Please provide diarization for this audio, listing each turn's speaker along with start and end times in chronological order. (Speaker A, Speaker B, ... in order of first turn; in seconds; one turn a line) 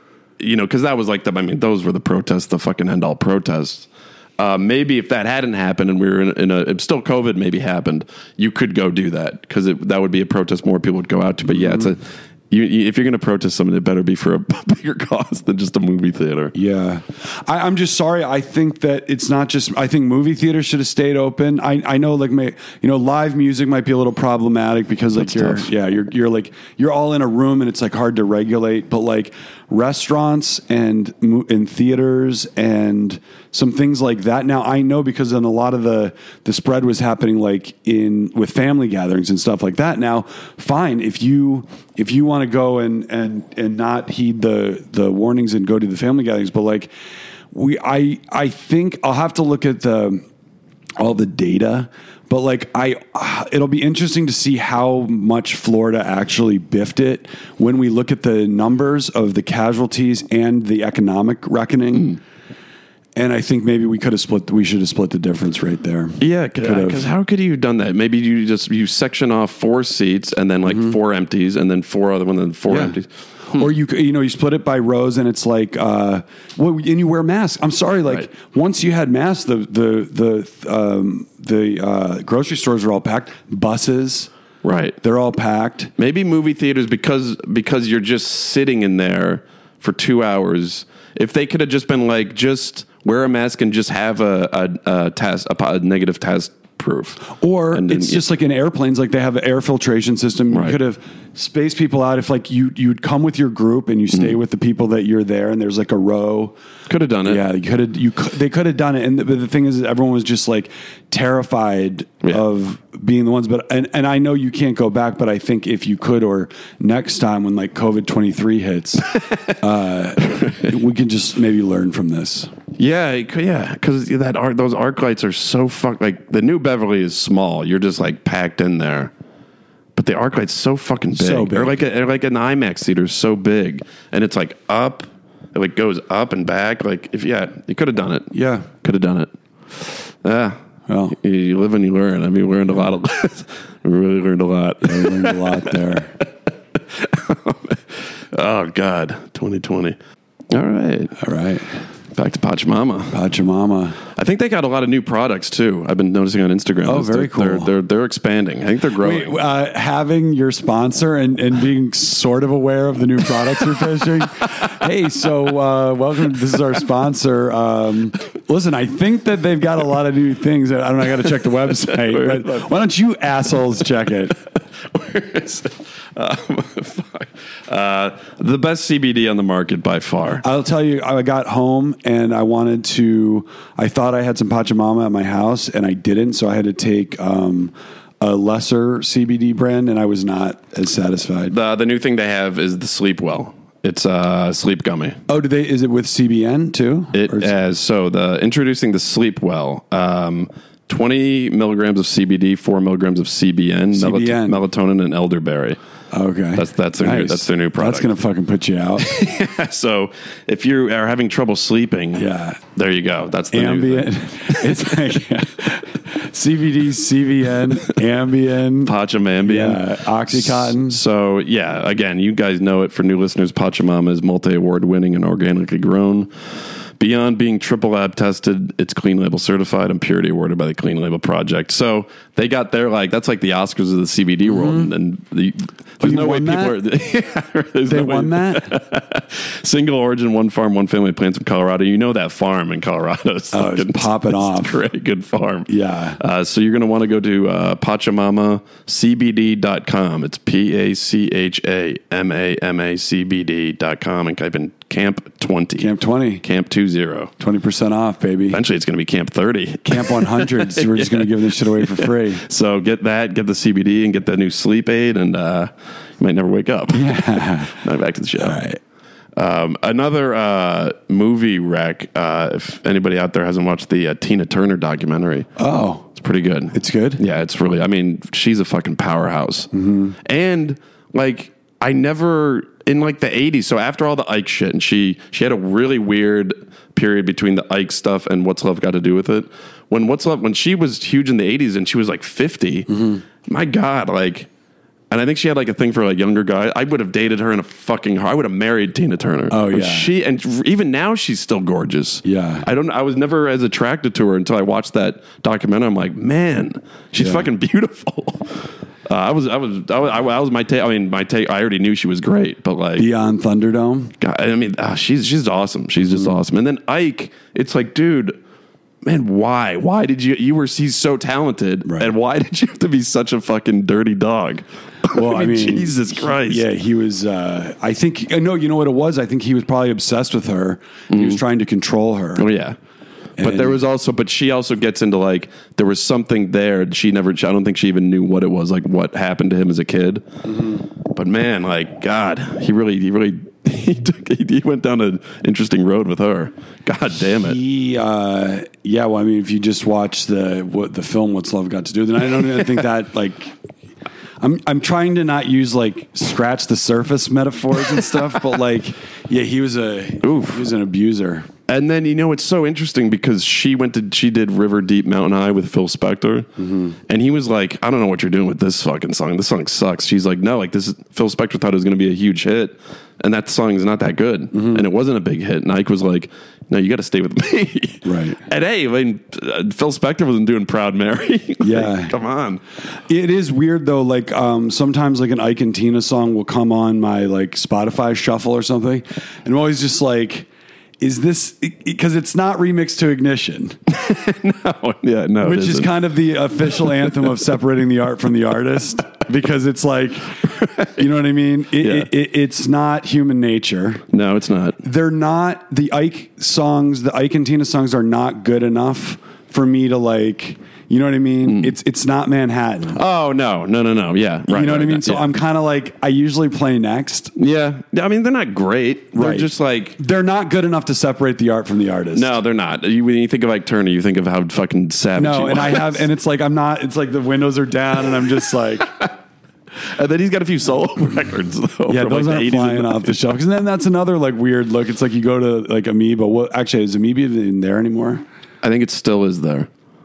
Speaker A: 0.4-16.5
Speaker B: 11.5-11.9
Speaker B: 16.5-46.9
Speaker A: 25.2-25.7
Speaker B: 47.5-50.2
Speaker B: 51.0-62.2
Speaker B: 63.2-67.1
Speaker A: 66.2-73.7
Speaker B: 70.7-71.0
Speaker B: 72.7-73.0
Speaker B: 73.5-84.3
Speaker A: 84.6-85.0
Speaker B: 85.0-85.9
Speaker A: 86.0-98.2
Speaker B: 97.2-106.5
Speaker A: 100.5-100.8
Speaker A: 106.9-107.4
Speaker B: 107.3-122.5
Speaker A: 119.1-119.5
Speaker A: 120.3-120.6
Speaker A: 122.8-129.1
Speaker A: 129.9-140.6
Speaker B: 131.1-131.8
Speaker B: 138.3-138.7
Speaker B: 140.9-141.2
Speaker A: 141.1-150.0
Speaker B: 144.8-146.1
Speaker A: 150.5-151.2
Speaker B: 151.2-151.7
Speaker A: 152.1-153.1
Speaker B: 153.1-154.0
Speaker A: 154.1-159.4
Speaker B: 156.8-157.7
Speaker B: 159.0-174.4
Speaker A: 171.9-172.7
Speaker A: 174.8-180.4
Speaker B: 180.4-191.6
Speaker A: 191.5-195.2
Speaker B: 195.3-197.5
Speaker A: 197.1-205.8
Speaker B: 203.9-204.6
Speaker B: 206.1-209.1
Speaker A: 206.6-208.1
Speaker A: 209.0-215.1
Speaker B: 212.2-212.6
Speaker B: 213.5-218.9
Speaker A: 218.8-226.3
Speaker B: 219.4-221.0
Speaker A: 227.0-255.9
Speaker B: 234.5-234.9
Speaker B: 236.0-236.8
Speaker B: 237.9-238.7
Speaker B: 243.5-244.8
Speaker B: 245.7-246.2
Speaker B: 255.8-256.4
Speaker A: 256.4-257.3
Speaker B: 257.4-258.6
Speaker A: 258.5-268.6
Speaker B: 259.9-262.4
Speaker B: 266.9-267.8
Speaker B: 268.4-268.8
Speaker A: 269.4-275.5
Speaker B: 275.6-276.1
Speaker A: 276.1-279.7
Speaker B: 276.7-277.2
Speaker B: 279.7-280.2
Speaker A: 280.2-292.9
Speaker B: 292.9-293.2
Speaker A: 293.4-294.5
Speaker A: 295.1-313.1
Speaker B: 299.5-300.1
Speaker B: 302.2-302.7
Speaker B: 307.2-307.5
Speaker B: 313.0-314.1
Speaker A: 314.2-318.4
Speaker A: 319.0-326.6
Speaker B: 321.9-322.1
Speaker B: 325.1-332.5
Speaker A: 331.1-331.4
Speaker A: 332.4-332.8
Speaker B: 333.4-333.8
Speaker A: 333.4-340.2
Speaker B: 340.4-340.9
Speaker A: 341.1-347.6
Speaker B: 347.4-353.6
Speaker B: 354.4-361.5
Speaker A: 360.2-360.6
Speaker A: 361.7-366.5
Speaker B: 366.6-367.0
Speaker A: 367.1-382.6
Speaker B: 374.5-374.9
Speaker B: 378.1-378.4
Speaker B: 381.6-382.1
Speaker B: 383.1-390.5
Speaker B: 391.0-393.8
Speaker A: 393.9-395.9
Speaker B: 395.4-400.4
Speaker A: 396.8-397.1
Speaker A: 400.4-400.9
Speaker B: 400.9-404.0
Speaker A: 401.8-402.1
Speaker A: 404.1-404.8
Speaker B: 404.8-413.0
Speaker A: 411.4-411.7
Speaker A: 412.9-415.3
Speaker B: 414.5-417.3
Speaker A: 417.4-420.0
Speaker B: 419.1-422.4
Speaker A: 422.1-426.1
Speaker B: 425.1-429.0
Speaker A: 429.9-433.2
Speaker B: 431.9-438.2
Speaker A: 438.6-439.7